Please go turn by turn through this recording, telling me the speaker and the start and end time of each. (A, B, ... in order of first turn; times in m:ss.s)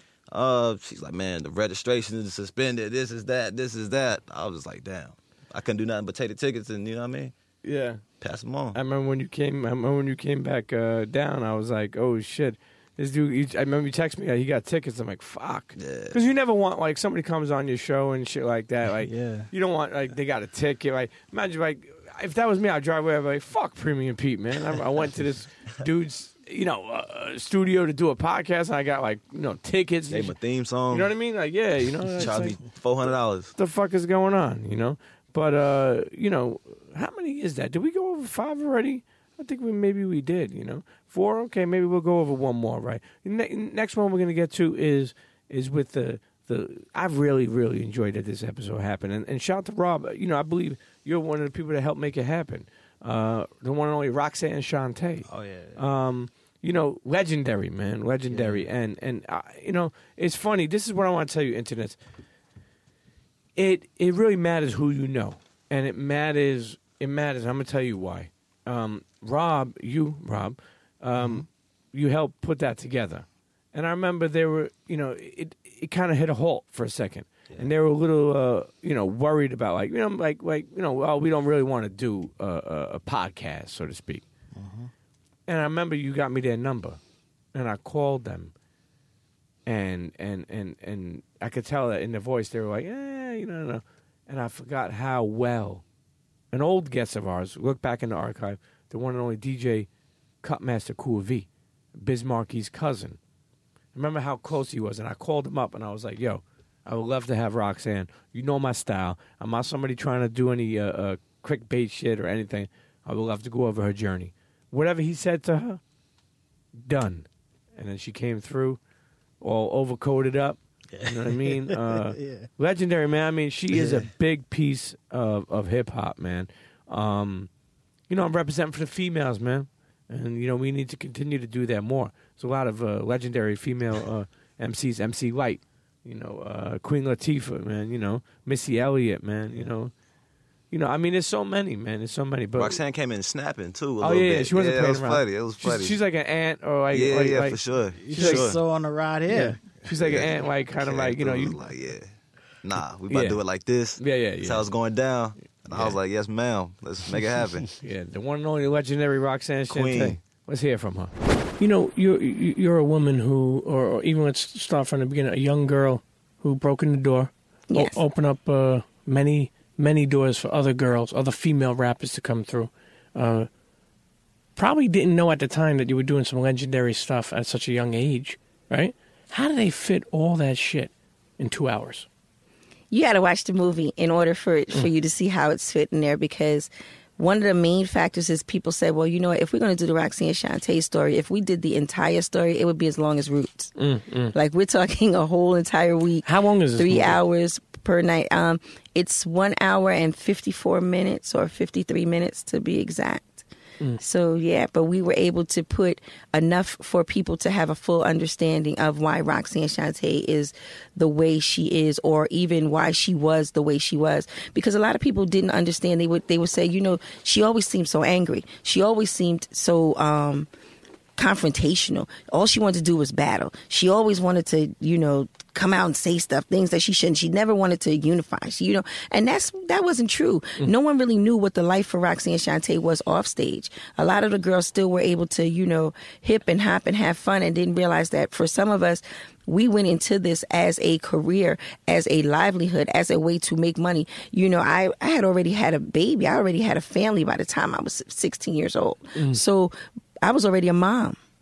0:00.3-0:07.3 A
0:07.6-0:08.0 B
0:08.2-0:08.8 A
0:08.7-0:30.4 B
0:15.8-0:16.2 A
0:19.0-0:19.5 C
0:30.1-0:31.1 A
0:30.9-0:32.6 B
0:32.2-0:33.5 A
0:33.6-1:02.0 B
0:55.3-0:55.7 A
1:03.6-1:24.2 B
1:24.6-1:24.9 C
1:25.5-1:27.0 B
1:27.5-1:28.5 B
1:29.7-1:35.8 B
1:36.5-1:39.9 B
1:40.4-1:43.2 B
1:44.0-1:55.8 B
1:56.8-1:58.8 B
1:59.4-2:07.5 B
2:00.9-2:02.5 C
2:03.7-2:04.1 C
2:08.1-2:19.9 B
2:20.7-2:22.8 B
2:22.6-2:26.0 A
2:24.0-2:27.6 B
2:26.9-2:28.6 A
2:28.0-2:29.6 C
2:28.1-2:28.5 B
2:29.3-2:31.6 B
2:29.9-2:32.1 A
2:32.6-2:37.7 A
2:33.1-2:33.4 B
2:34.0-2:34.7 B
2:35.7-2:36.0 B
2:37.8-2:41.1 B
2:39.7-2:40.2 A
2:41.6-2:53.5 D
2:47.7-2:48.0 E
2:54.6-3:02.1 D
3:02.9-3:13.8 E
3:13.8-3:14.4 D
3:14.3-3:23.4 E
3:16.2-3:17.2 D
3:24.0-3:40.5 E
3:41.2-4:11.2 E
4:09.2-4:09.4 D